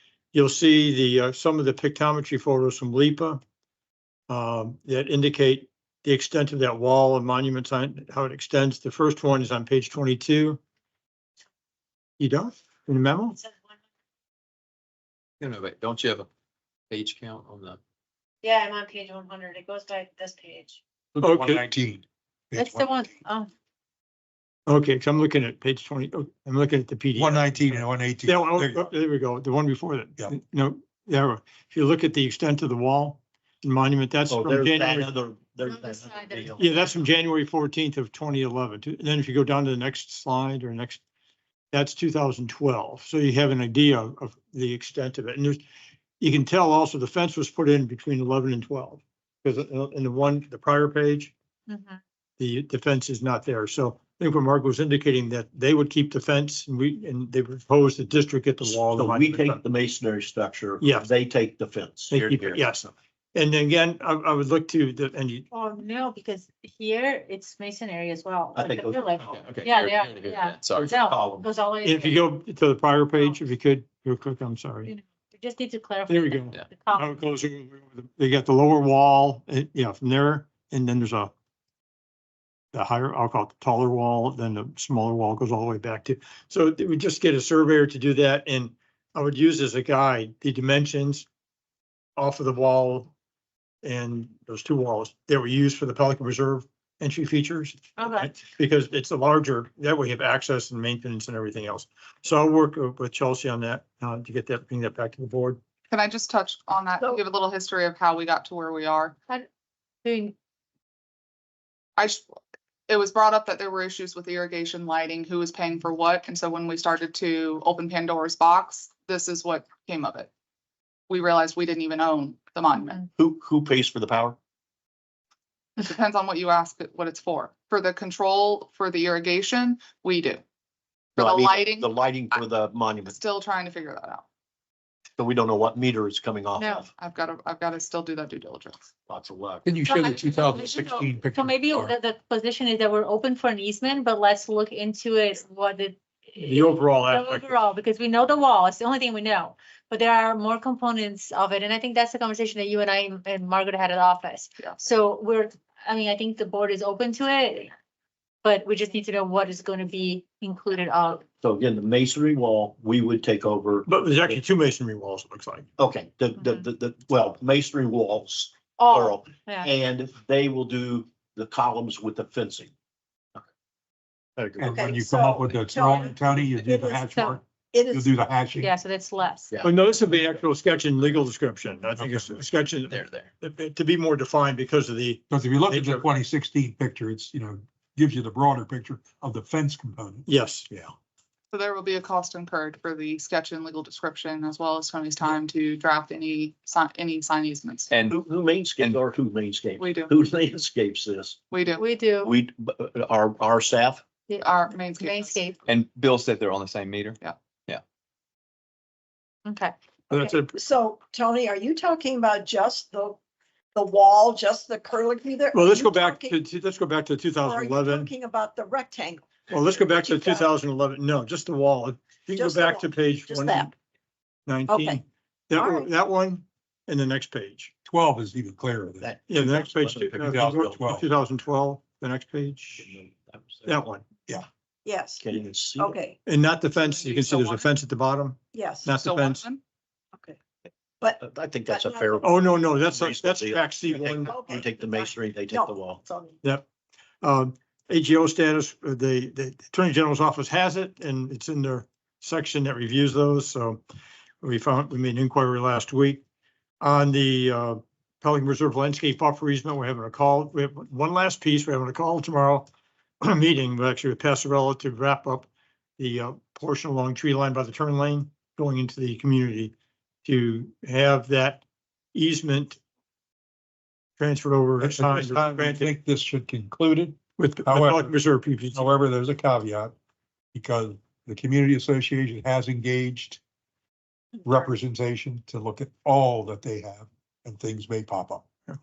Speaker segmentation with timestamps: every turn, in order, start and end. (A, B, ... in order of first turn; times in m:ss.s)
0:00.3-0:03.4 A
0:04.3-0:10.6 A
0:12.2-0:13.4 A
0:13.3-0:13.8 B
0:15.4-0:16.3 C
0:16.9-0:17.8 C
0:18.4-0:20.8 B
0:21.1-0:23.1 D
0:21.2-0:21.6 A
0:22.6-0:23.5 B
0:24.7-0:35.1 A
0:27.2-0:28.9 D
0:34.3-0:36.8 E
0:35.6-0:36.9 B
0:36.6-0:41.0 A
0:41.7-0:45.6 A
0:46.2-0:51.3 A
0:51.7-0:52.0 B
0:52.4-0:59.6 A
0:58.6-1:02.8 E
1:00.8-1:01.1 A
1:02.1-1:05.5 A
1:05.5-1:12.3 B
1:08.5-1:09.5 E
1:09.3-1:10.9 C
1:10.8-1:11.5 E
1:11.8-1:14.9 A
1:14.8-1:17.1 B
1:16.1-1:21.3 A
1:22.7-1:31.3 A
1:32.2-1:33.1 A
1:33.8-1:45.6 A
1:38.0-1:38.3 B
1:45.9-1:49.2 F
1:50.0-1:50.3 B
1:52.0-1:52.3 F
1:52.9-2:00.3 F
2:01.1-2:03.0 F
2:03.2-2:04.4 E
2:05.8-2:10.4 F
2:11.2-2:12.4 F
2:11.2-2:13.2 E
2:13.1-2:14.2 F
2:15.2-2:16.9 E
2:16.6-2:16.9 B
2:17.0-2:18.8 F
2:19.1-2:19.7 E
2:19.6-2:21.9 D
2:19.8-2:37.7 B
2:26.4-2:27.5 A
2:38.4-2:41.2 B
2:41.4-2:43.9 E
2:43.9-2:45.7 A
2:45.8-2:52.7 E
2:48.8-2:49.7 B
2:54.6-2:58.7 D
2:54.6-2:58.1 G
2:58.6-2:59.5 B
2:59.6-3:06.0 A
3:02.0-3:02.4 D
3:02.9-3:03.3 C
3:05.3-3:10.9 D
3:10.3-3:10.7 A
3:11.5-3:17.9 F
3:17.9-3:18.2 C
3:18.1-3:21.4 E
3:18.8-3:19.1 C
3:19.8-3:20.1 F
3:21.5-3:21.9 F
3:21.8-3:22.3 B
3:22.2-3:24.0 E
3:24.3-3:25.6 B
3:24.4-3:25.5 F
3:25.6-3:27.8 C
3:29.4-3:29.7 B
3:30.1-3:30.5 A
3:30.1-3:33.2 G
3:33.7-3:36.4 G
3:35.5-3:38.1 A
3:37.4-3:40.5 G
3:39.5-3:43.7 A
3:42.3-3:43.7 G
3:44.4-3:47.7 A
3:44.7-3:45.0 G
3:45.6-3:45.9 G
3:47.8-3:49.0 D
3:49.0-3:50.8 E
3:49.3-3:52.9 A
3:50.3-3:51.1 D
3:52.8-3:53.7 E
3:53.6-3:54.0 A
3:54.8-3:55.2 G
3:55.2-3:56.0 E
3:55.8-3:56.2 G
3:56.2-3:59.4 A
3:56.8-3:57.7 F
3:58.5-3:58.9 G
3:58.9-3:59.6 F
4:01.0-4:02.2 G
4:01.2-4:06.0 E
4:02.2-4:04.4 A
4:04.3-4:06.4 G
4:07.2-4:13.8 A
4:14.4-4:16.2 A
4:16.8-4:22.7 A
4:23.2-4:31.6 A
4:32.1-4:32.8 A
4:34.2-4:35.9 A
4:34.8-4:38.1 D
4:37.4-4:38.9 A
4:38.7-4:39.9 D
4:40.5-4:43.4 D
4:44.4-4:48.5 D